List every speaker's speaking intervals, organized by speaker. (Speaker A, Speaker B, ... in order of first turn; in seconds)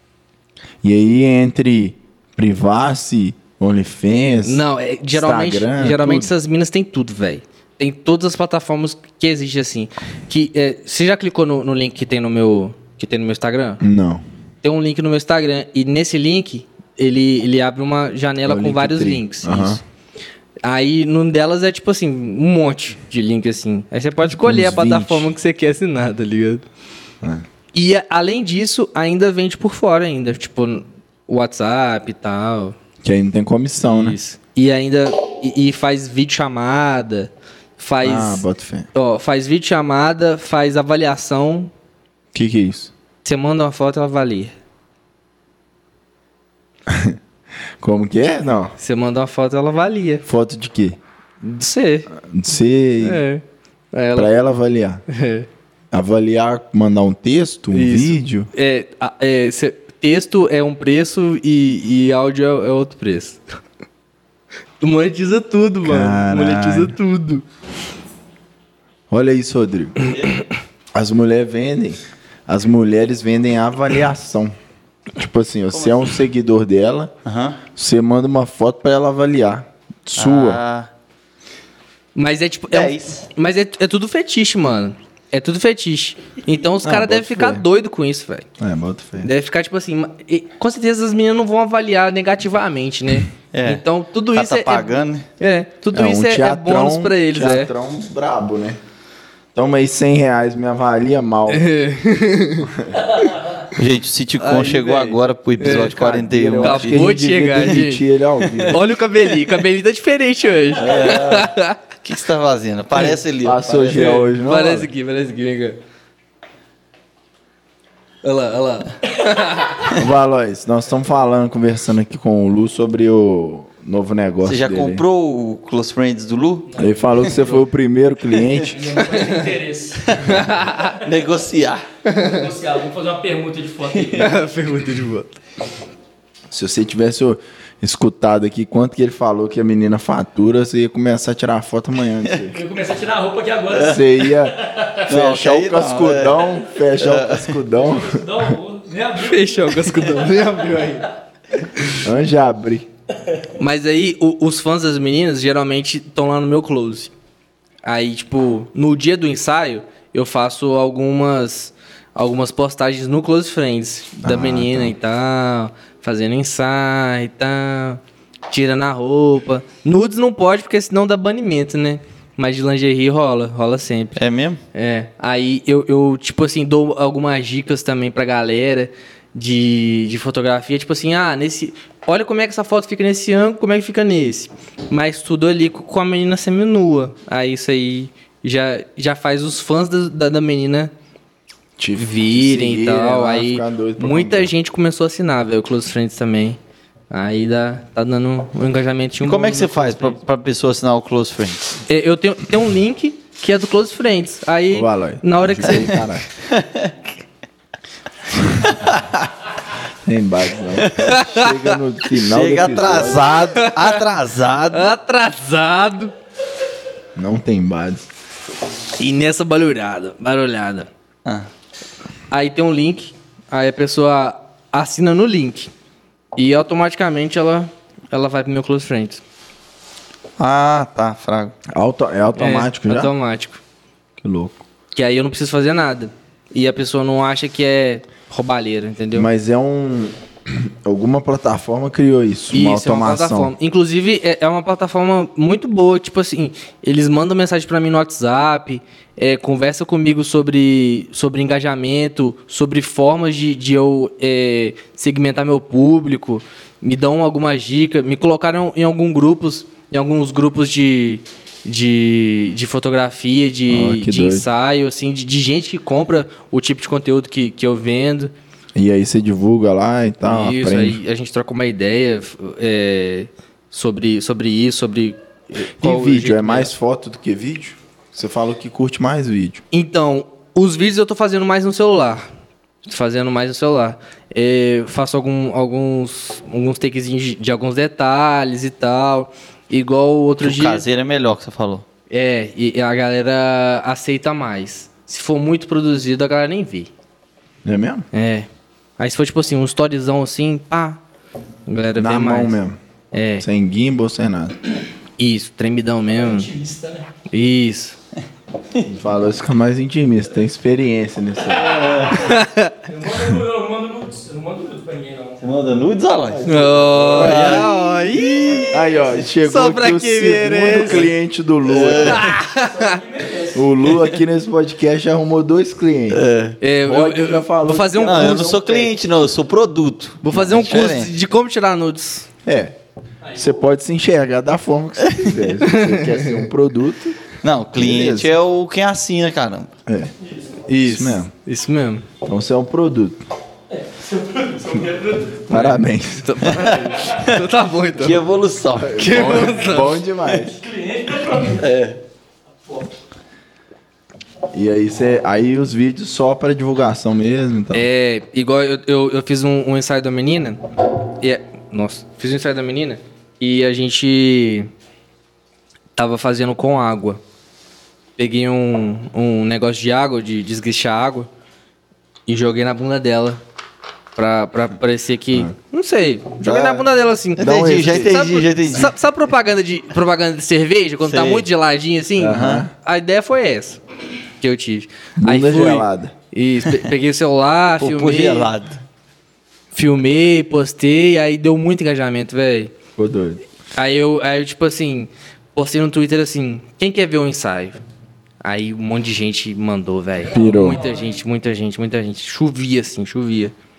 Speaker A: 0.8-6.3, 13.8-14.2, 18.4-19.8, 24.2-25.3, 33.0-34.2, 38.0-38.9, 42.3-42.9, 46.9-47.2, 47.8-48.7, 50.2-51.0, 52.1-53.2, 54.1-55.0, 55.9-58.5, 65.8-67.0, 69.1-70.0, 70.9-74.5, 75.2-77.1, 77.7-80.6, 86.8-87.7, 88.6-89.3, 95.9-98.8, 99.5-101.7, 102.7-103.0, 104.7-105.1, 105.6-108.9, 113.4-114.9, 120.0-125.0, 126.8-128.8, 136.5-142.6, 143.7-148.6, 152.0-152.9, 164.2-164.9, 191.8-194.5, 204.7-206.3, 210.0-213.4, 217.2-218.1, 231.7-233.1, 234.2-234.6, 239.1-243.5, 263.7-264.5, 268.8-271.0, 275.8-279.6, 297.6-298.1, 302.0-302.8, 303.4-304.6, 308.8-312.0, 316.3-317.7, 318.6-322.3, 323.5-326.2, 326.8-328.9, 332.4-332.8, 333.4-338.3, 339.9-340.1, 340.8-341.3, 342.2-343.2, 345.5-346.4, 348.8-350.6, 354.5-357.9, 376.4-376.9, 377.4-378.2, 382.2-382.7, 385.2-386.1, 393.0-393.4, 400.3-400.8
Speaker B: 4.5-13.8, 14.6-19.8, 20.6-26.6, 27.7-32.8, 33.8-41.7, 43.2-44.5, 48.8-50.2, 51.4-52.1, 53.0-54.3, 55.1-55.5, 57.7-63.4, 64.8-67.4, 82.2-88.5, 89.2-97.7, 101.5-103.3, 104.4-105.9, 106.6-108.0, 108.7-111.8, 113.9-115.8, 118.2-119.9, 132.1-132.3, 134.2-135.4, 149.2-151.1, 153.6-157.1, 157.8-174.2, 174.7-190.9, 192.0-196.6, 197.1-200.2, 201.9-206.0, 211.1-211.5, 213.5-214.0, 214.7-216.1, 219.0-220.9, 222.3-225.7, 226.3-229.2, 232.3-233.6, 234.9-239.3, 242.5-268.3, 270.2-276.7, 279.7-282.2, 282.9-290.8, 292.1-296.9, 298.1-301.0, 301.7-302.6, 303.1-303.5, 305.2-306.5, 307.3-308.0, 312.2-312.7, 316.5-318.8, 319.4-321.1, 322.1-323.0, 326.6-328.6, 330.2-332.3, 335.6-336.4, 340.7-342.1, 345.5-348.2, 348.9-350.0, 357.7-360.6, 361.2-364.7, 366.0-367.2, 368.2-371.3, 372.3-373.4, 374.1-383.8, 384.4-388.5, 389.7-392.7, 393.8-397.8, 398.4-403.5
Speaker C: 70.0-70.3, 75.7-76.0, 77.2-77.6, 80.2-80.9, 82.7-83.3, 93.5-95.3, 103.7-107.1, 108.4-108.7, 110.8-111.5, 112.0-114.0, 124.4-126.7, 130.0-131.8, 133.9-134.3, 143.7-144.0, 145.1-147.6, 174.2-174.6, 199.2-201.7, 206.4-206.9, 208.6-209.0, 210.9-211.1, 212.1-214.9, 230.4-231.5, 290.4-291.8, 311.5-312.2, 315.4-317.7, 321.6-322.3, 326.1-326.6, 328.0-331.1, 335.0-335.4, 337.4-339.7, 346.4-347.4, 348.0-349.5, 351.6-352.0, 377.4-378.9, 381.0-381.5, 382.3-382.7, 387.8-388.8
Speaker D: 126.7-127.6, 128.7-130.9, 132.1-134.3, 142.5-145.1, 147.7-150.8, 306.1-307.1, 311.7-315.4, 318.4-318.8, 322.4-323.7, 340.2-340.5, 343.7-345.6, 350.4-351.7, 352.7-352.9, 400.3-401.2